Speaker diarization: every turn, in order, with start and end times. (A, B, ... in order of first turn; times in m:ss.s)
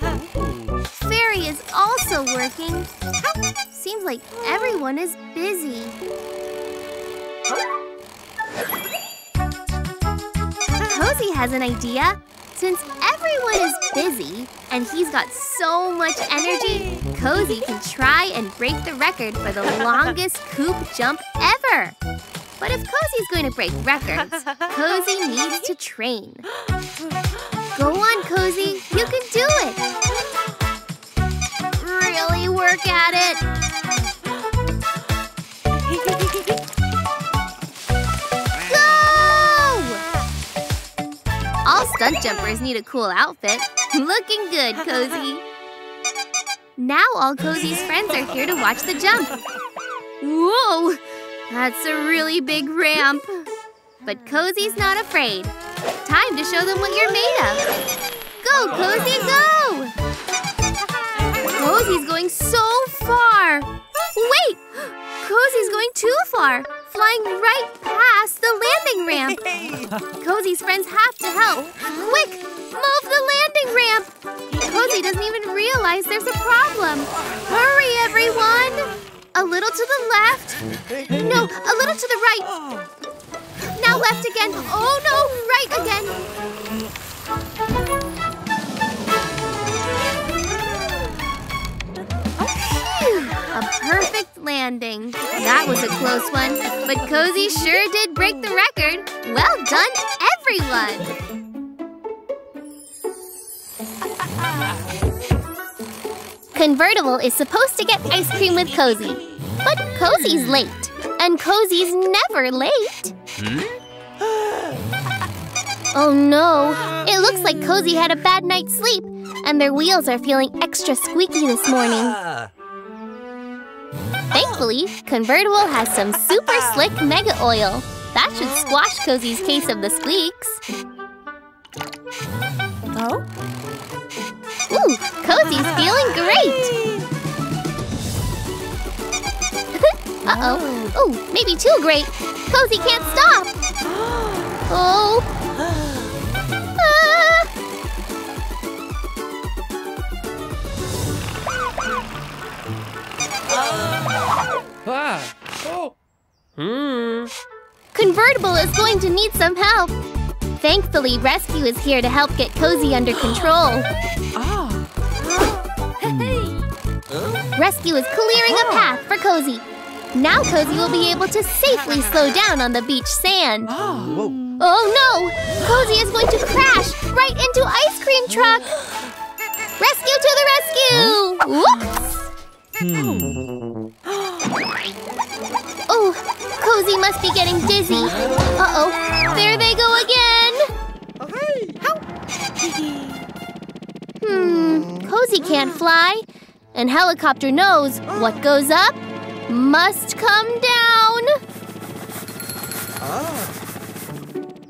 0:00.2-0:00.8 A
0:01.0-0:02.9 B
0:03.7-0:06.0 B
0:10.9-0:22.0 B
0:22.6-0:26.4 B
0:27.7-0:29.8 B
0:31.8-0:33.4 B
0:38.7-0:40.0 B
0:41.6-0:45.4 B
0:46.8-0:49.4 B
0:50.2-0:53.5 B
0:54.0-0:57.7 B
0:58.4-0:59.9 B
1:01.5-1:09.4 B
1:09.3-1:10.0 A
1:10.2-1:20.6 B
1:21.0-1:21.3 A
1:21.2-1:22.5 B
1:23.8-1:26.2 B
1:32.5-1:41.1 B
1:46.5-1:53.1 B
1:55.9-2:02.2 B
2:04.3-2:10.6 B
2:14.7-2:16.7 B
2:19.7-2:23.5 B
2:24.7-2:25.3 B
2:26.8-2:27.5 B
2:37.9-2:39.9 B
2:40.6-2:43.9 B
2:44.4-2:44.8 A
2:46.0-2:46.6 A
2:47.6-2:53.8 B
2:53.8-2:54.4 A
2:54.6-2:58.8 B
2:59.8-3:02.2 B
3:02.8-3:03.5 A
3:05.9-3:10.7 B
3:11.2-3:12.0 A
3:14.2-3:21.4 B